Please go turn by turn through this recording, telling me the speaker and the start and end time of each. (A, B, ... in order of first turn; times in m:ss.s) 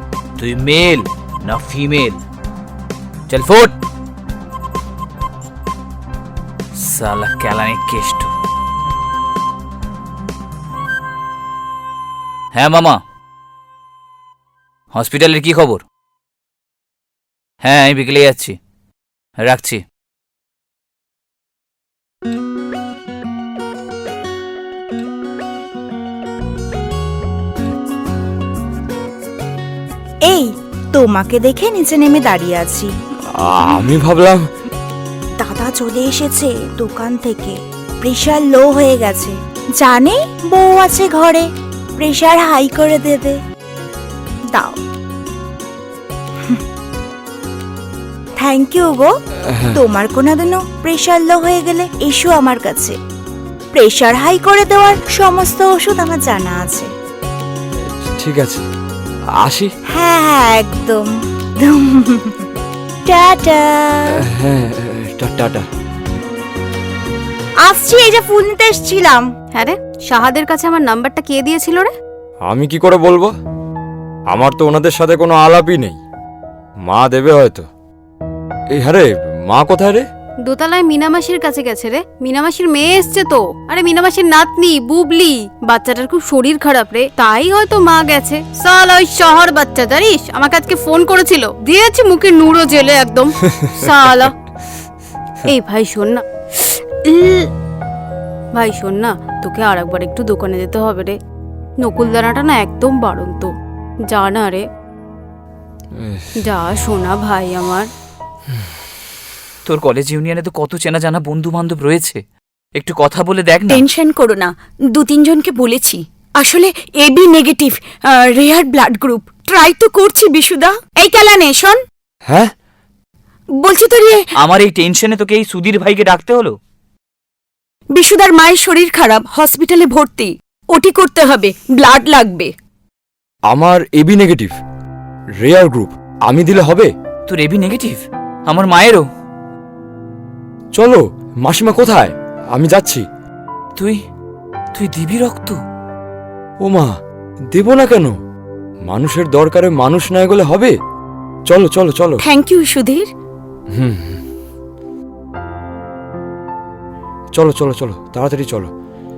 0:00.4-0:02.2 A
0:03.3-0:03.8 A
0:06.8-0:08.3 A
0:12.5-0:13.0 A
0:14.9-0:15.8 A
0:17.6-0:18.6 A
0:19.4-0:19.8 A
0:30.3-0:32.9 B
0:33.3-0:34.5 C
0:35.4-0:43.4 B
0:44.5-0:44.8 B
0:48.4-0:49.1 B
0:49.5-0:49.8 C
0:49.7-0:53.0 B
0:53.7-0:56.9 B
0:57.8-0:58.7 C
0:59.4-0:59.7 C
0:59.9-1:02.4 B
1:03.1-1:04.2 B
1:04.2-1:05.7 C
1:07.6-1:09.3 B
1:09.6-1:11.9 D
1:12.5-1:13.3 C
1:14.3-1:16.0 C
1:16.9-1:17.7 C
1:18.8-1:20.1 C
1:20.5-1:34.3 D
1:35.4-1:37.5 D
1:38.6-1:41.2 D
1:41.8-1:43.5 D
1:44.1-1:44.6 D
1:46.0-1:46.4 C
1:46.4-1:47.9 D
1:49.7-1:52.2 A
1:52.8-1:53.8 A
1:53.7-2:01.8 E
2:03.6-2:04.2 E
2:04.4-2:06.6 A
2:07.9-2:12.5 E
2:13.5-2:14.6 C
2:15.4-2:16.9 C
2:17.3-2:19.1 A
2:20.8-2:23.0 C
2:23.8-2:24.0 A
2:24.7-2:25.6 A
2:26.6-2:26.9 C
2:27.5-2:28.2 C
2:28.9-2:30.7 C
2:31.5-2:32.2 C
2:32.2-2:33.1 E
2:33.7-2:34.2 C
2:37.4-2:38.7 C